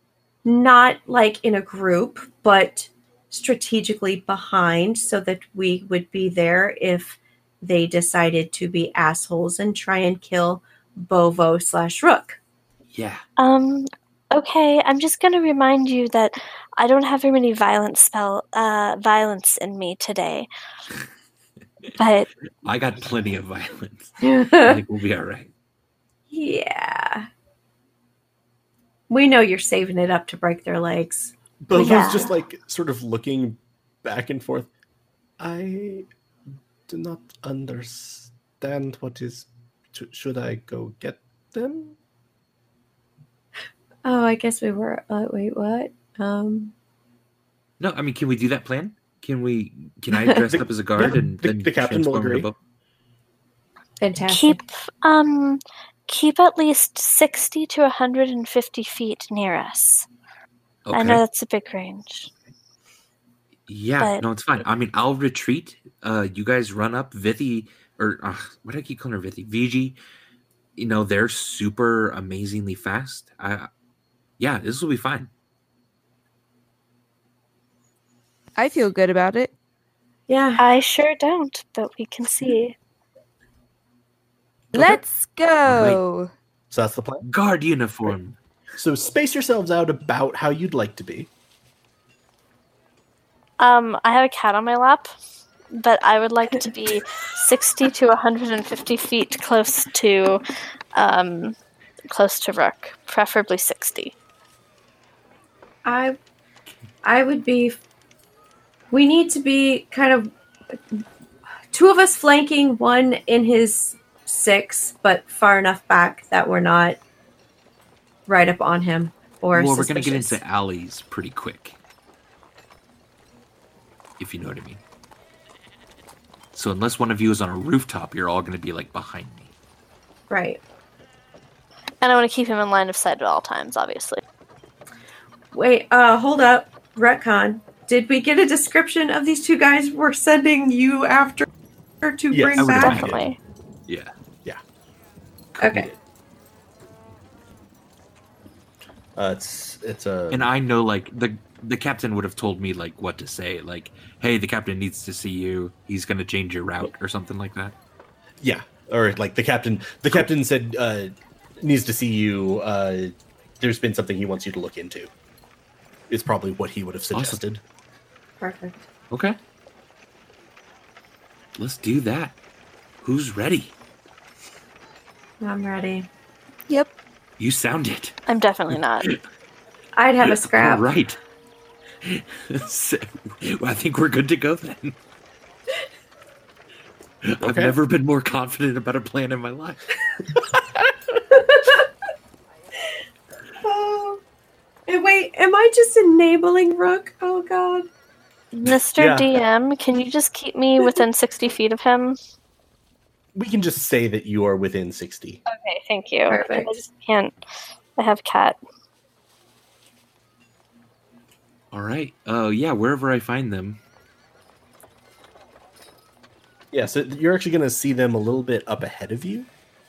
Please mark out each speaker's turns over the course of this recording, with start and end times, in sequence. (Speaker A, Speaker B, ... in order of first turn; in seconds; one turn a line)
Speaker A: 0.4-12.4
Speaker B: 12.9-13.2
Speaker C: 13.4-20.5
Speaker C: 22.0-22.3
Speaker B: 22.6-25.5
Speaker A: 24.2-24.8
Speaker A: 26.3-27.3
Speaker A: 29.1-32.3
Speaker D: 31.6-34.7
Speaker C: 31.7-32.3
Speaker D: 35.4-36.1
Speaker D: 36.9-42.0
Speaker A: 44.0-46.7
Speaker B: 47.8-52.5
Speaker D: 50.5-52.5
Speaker A: 54.0-54.6
Speaker C: 54.2-60.1
Speaker B: 60.8-61.2
Speaker C: 60.9-62.3
Speaker B: 63.7-70.0
Speaker B: 70.8-73.7
Speaker B: 74.4-75.3
Speaker E: 78.5-79.5
Speaker A: 80.3-80.6
Speaker C: 80.6-82.8
Speaker B: 84.7-85.0
Speaker E: 84.7-86.3
Speaker B: 85.6-86.0
Speaker D: 86.7-87.2
Speaker B: 87.2-88.4
Speaker D: 88.8-91.3
Speaker C: 93.6-95.1
Speaker C: 95.7-100.4
Speaker C: 100.9-101.5
Speaker C: 102.1-104.1
Speaker A: 105.8-106.2
Speaker A: 107.0-107.8
Speaker A: 108.9-111.0
Speaker A: 111.7-117.0
Speaker A: 118.3-120.4
Speaker B: 119.5-121.8
Speaker B: 124.2-124.8
Speaker B: 126.5-129.5
Speaker A: 130.3-130.6
Speaker C: 132.0-134.2
Speaker A: 135.5-141.5
Speaker A: 142.0-143.1
Speaker D: 142.3-143.3
Speaker B: 142.6-143.2
Speaker C: 142.8-143.4
Speaker A: 145.6-145.9
Speaker D: 149.2-150.5
Speaker B: 150.3-157.7
Speaker D: 158.4-165.1
Speaker D: 166.1-167.6
Speaker B: 167.1-167.4
Speaker A: 168.4-168.9
Speaker B: 169.1-169.4
Speaker B: 171.6-172.4
Speaker B: 173.0-173.7
Speaker A: 175.4-176.1
Speaker E: 176.7-176.9
Speaker B: 177.4-178.2
Speaker C: 178.3-179.1
Speaker B: 178.7-179.2
Speaker A: 179.9-180.9
Speaker B: 180.2-181.2
Speaker B: 182.0-185.0
Speaker B: 187.2-190.0
Speaker D: 187.4-187.8
Speaker D: 190.3-190.8
Speaker A: 191.3-191.9
Speaker A: 193.6-194.2
Speaker A: 194.9-197.9
Speaker C: 198.5-202.2
Speaker D: 198.6-199.4
Speaker D: 203.3-205.4
Speaker C: 205.5-207.3
Speaker A: 206.3-206.8
Speaker C: 208.0-208.6
Speaker B: 211.7-213.8
Speaker D: 216.7-219.5